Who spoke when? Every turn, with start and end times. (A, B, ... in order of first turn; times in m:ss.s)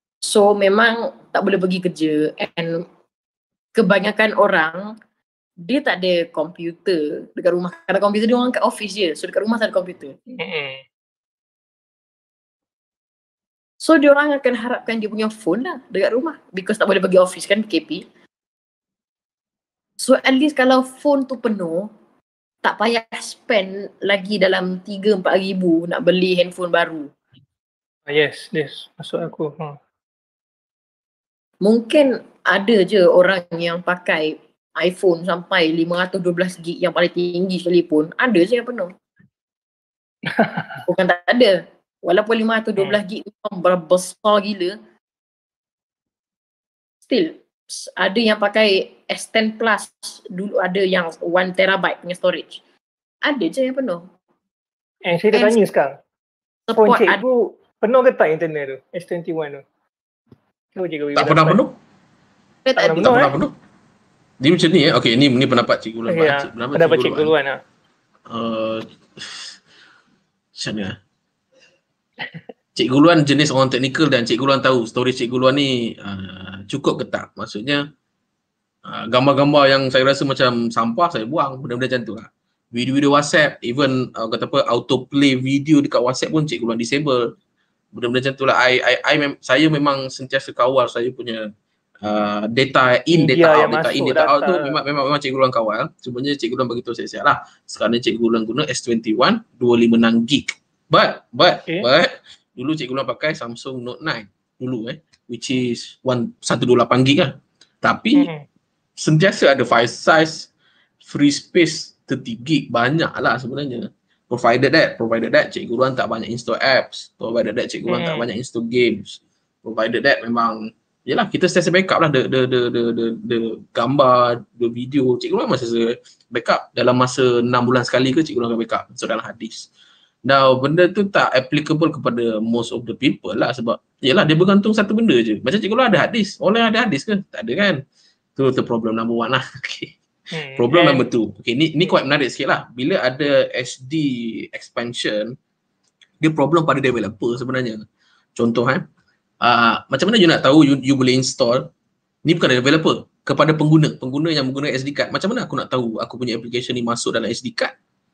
0:00.2-0:02.8 A
0:03.8-0:04.9 A
0:05.6-0:10.2 A
0:10.4-0:10.8 B
0:13.8-0:18.0 A
0:20.0-0:21.9 A
0:22.6-0:27.1 A
0:28.1-0:29.8 B
0:31.6-0:38.9 A
0:40.3-0:40.8 B
0:40.8-0:44.8 A
0:47.1-0:52.6 A
0:53.2-0:54.1 A
0:55.1-0:55.9 B
0:55.3-0:55.6 A
0:56.7-0:57.3 A
0:56.8-0:59.6 B
1:00.8-1:01.6 B
1:01.2-1:01.8 C
1:02.7-1:03.3 A
1:02.8-1:03.4 B
1:03.0-1:03.5 C
1:04.4-1:07.3 C
1:06.1-1:07.6 B
1:08.3-1:09.6 C
1:10.6-1:11.0 C
1:12.8-1:17.8 C
1:18.9-1:27.3 C
1:27.9-1:31.4 C
1:32.0-1:48.3 C
1:33.1-1:34.8 B
1:48.2-1:48.4 B
1:49.0-1:50.5 C
1:51.0-2:09.7 C
1:57.9-1:58.3 B
2:10.3-2:17.8 C
2:18.4-2:20.0 C
2:20.3-2:21.1 B
2:20.6-2:25.4 C
2:26.2-2:27.8 C
2:28.4-2:28.8 C
2:29.4-2:31.7 C
2:32.3-2:37.7 C